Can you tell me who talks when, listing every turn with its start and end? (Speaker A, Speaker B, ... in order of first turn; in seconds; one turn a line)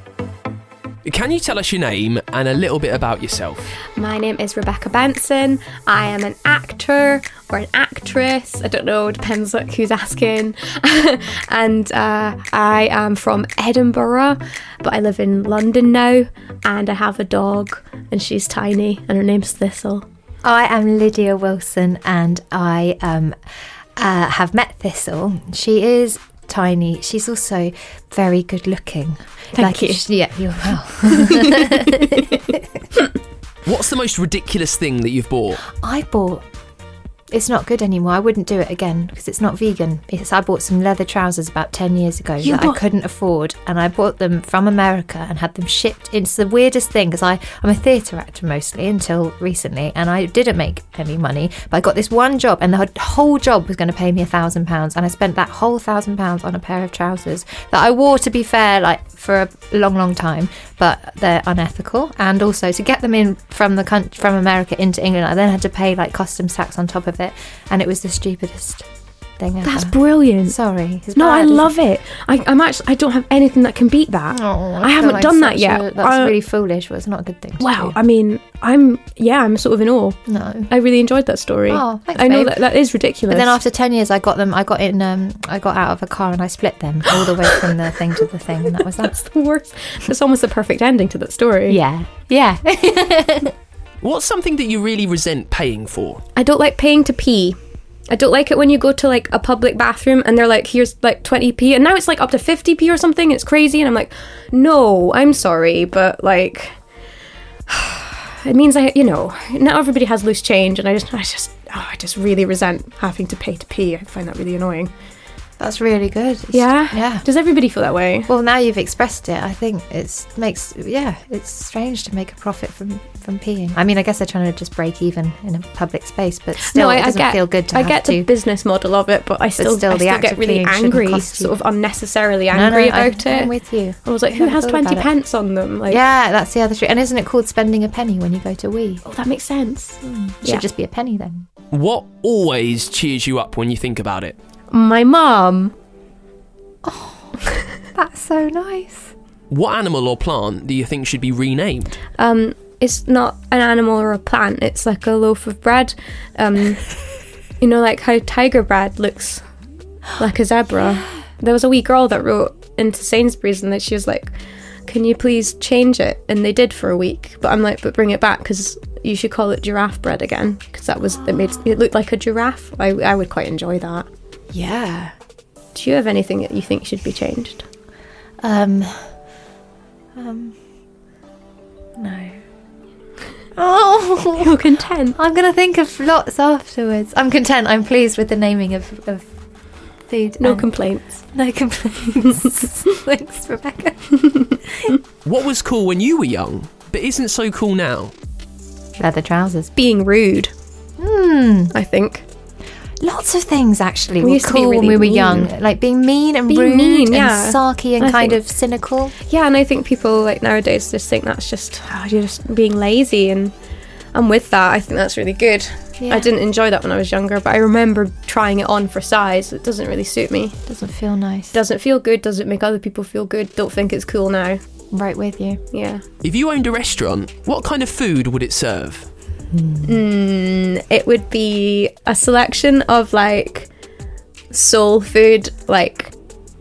Speaker A: 1.0-3.7
Speaker B: 4.0-20.1
Speaker C: 20.4-23.4
Speaker C: 24.0-32.7
Speaker B: 29.5-30.0
Speaker B: 31.1-32.2
Speaker A: 33.6-35.6
Speaker C: 35.7-36.4
Speaker C: 37.3-68.8
Speaker B: 42.4-42.8
Speaker C: 69.4-71.7
Speaker B: 69.6-70.6
Speaker B: 71.1-76.3
Speaker C: 74.3-78.0
Speaker B: 77.6-83.6
Speaker C: 80.3-80.7
Speaker C: 81.7-82.6
Speaker C: 83.3-89.2
Speaker B: 87.2-87.7
Speaker B: 88.7-91.8
Speaker C: 91.7-93.5
Speaker A: 94.0-96.2
Speaker B: 96.3-97.6
Speaker B: 98.1-106.8
Speaker B: 107.7-114.9
Speaker C: 115.6-117.2
Speaker B: 116.5-118.3
Speaker C: 118.3-128.3
Speaker B: 126.6-136.0
Speaker C: 129.6-131.5
Speaker C: 132.5-135.1
Speaker C: 135.9-139.0
Speaker B: 139.0-140.6
Speaker C: 140.0-141.5
Speaker A: 141.7-144.3
Speaker B: 144.7-145.7
Speaker C: 146.8-147.3
Speaker C: 147.9-149.1
Speaker A: 149.5-152.0
Speaker B: 152.2-156.9
Speaker B: 157.6-159.4
Speaker B: 160.2-164.3
Speaker B: 164.9-174.1
Speaker C: 174.5-175.1
Speaker B: 175.7-177.7
Speaker C: 178.4-179.1
Speaker C: 180.2-180.6
Speaker C: 182.0-182.3
Speaker C: 183.6-184.5
Speaker B: 184.4-185.2
Speaker C: 185.1-189.2
Speaker C: 190.1-190.7
Speaker B: 190.4-191.2
Speaker C: 191.3-194.9
Speaker A: 195.2-198.1
Speaker C: 199.0-199.7
Speaker B: 199.7-200.5
Speaker C: 201.0-201.7
Speaker B: 201.7-202.2
Speaker C: 203.0-209.1
Speaker B: 204.2-205.5
Speaker B: 206.5-208.4
Speaker B: 209.2-213.5
Speaker B: 214.1-220.6
Speaker C: 216.0-216.3
Speaker C: 220.7-221.5
Speaker B: 221.5-224.6
Speaker C: 224.9-225.6
Speaker B: 225.7-226.0
Speaker A: 226.2-229.1
Speaker C: 229.5-230.0
Speaker B: 229.8-233.7
Speaker B: 234.5-236.1